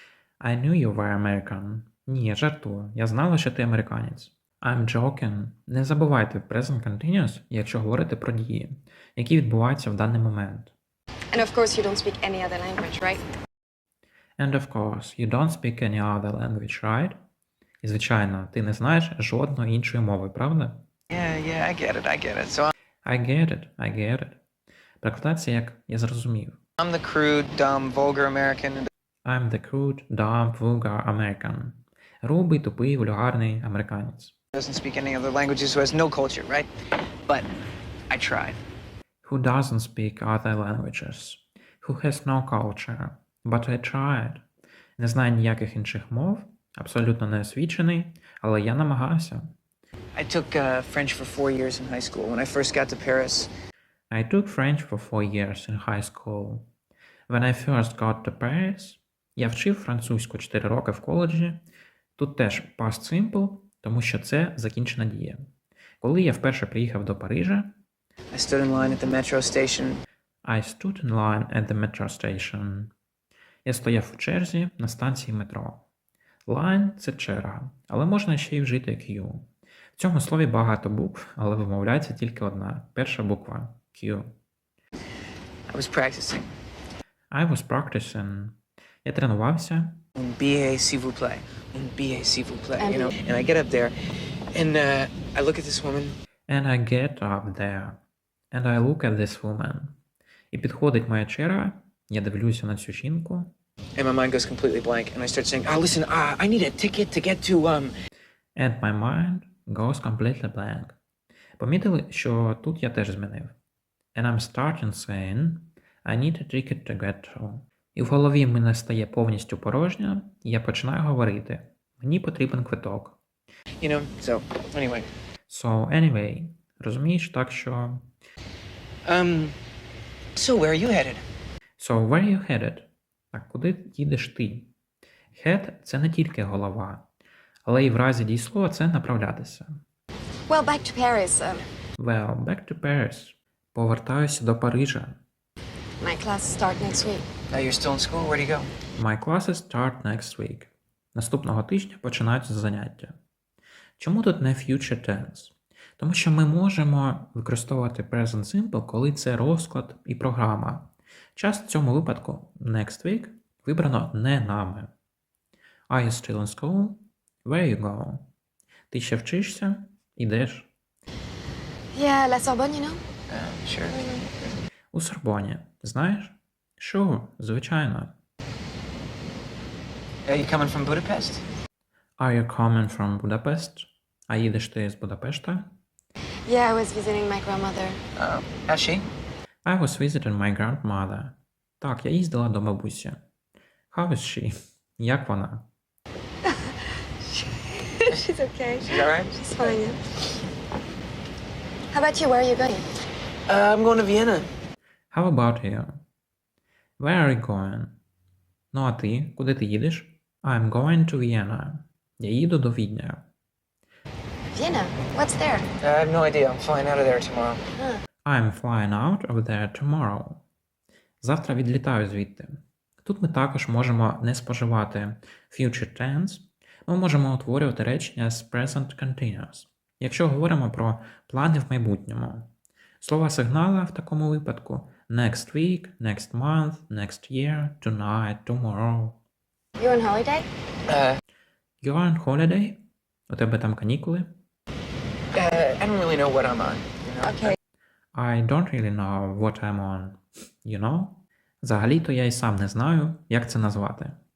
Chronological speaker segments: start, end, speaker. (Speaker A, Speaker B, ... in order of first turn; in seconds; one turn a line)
Speaker A: 0.4-10.7
Speaker B: 11.3-13.2
Speaker A: 14.4-17.2
Speaker A: 17.8-20.9
Speaker C: 21.1-22.7
Speaker A: 23.1-24.4
Speaker A: 25.0-26.6
Speaker C: 26.8-28.9
Speaker A: 29.2-34.3
Speaker C: 34.5-36.7
Speaker C: 37.3-37.5
Speaker C: 38.1-38.6
Speaker A: 39.2-44.4
Speaker A: 45.0-49.5
Speaker C: 50.1-53.5
Speaker A: 54.1-56.7
Speaker A: 57.3-61.6
Speaker A: 62.2-65.5
Speaker A: 66.0-67.7
Speaker C: 68.3-70.0
Speaker A: 70.5-72.9
Speaker A: 73.7-75.9
Speaker A: 76.5-84.3
Speaker C: 85.7-86.5
Speaker A: 87.3-90.0
Speaker C: 90.2-94.0
Speaker B: 92.8-93.1
Speaker C: 94.5-96.2
Speaker A: 96.5-98.0
Speaker A: 98.5-100.0
Speaker A: 100.5-103.5
Speaker C: 104.0-107.9
Speaker A: 108.6-111.0
Speaker A: 111.6-113.5
Speaker A: 114.1-123.2
Speaker C: 123.8-125.1
Speaker A: 125.5-128.1
Speaker C: 129.1-129.6
Speaker C: 130.3-131.2
Speaker A: 131.8-134.7
Speaker A: 135.3-137.1
Speaker A: 137.7-139.8
Speaker B: 140.5-141.7
Speaker A: 142.0-145.2
Speaker B: 146.0-147.3
Speaker C: 147.5-148.7
Speaker A: 149.0-153.2
Speaker A: 154.0-164.9
Speaker A: 165.9-168.3
Speaker A: 168.9-170.7
Speaker B: 171.9-173.1
Speaker C: 173.3-174.1
Speaker B: 173.9-174.2
Speaker A: 174.9-178.1
Speaker C: 180.3-181.4
Speaker A: 182.2-185.7
Speaker B: 186.5-188.0
Speaker C: 188.2-189.1
Speaker A: 189.7-193.2
Speaker A: 193.9-195.7
Speaker B: 196.6-200.0
Speaker C: 198.8-199.8
Speaker B: 201.9-202.9
Speaker C: 203.5-204.5
Speaker A: 205.1-206.0
Speaker A: 207.0-208.0
Speaker A: 208.7-213.2
Speaker B: 214.5-215.7
Speaker C: 215.8-217.7
Speaker A: 218.2-220.4
Speaker A: 221.2-239.2
Speaker B: 239.8-240.5
Speaker C: 240.9-241.2
Speaker A: 241.8-244.3
Speaker C: 245.3-247.6
Speaker B: 247.2-247.6
Speaker A: 248.2-254.2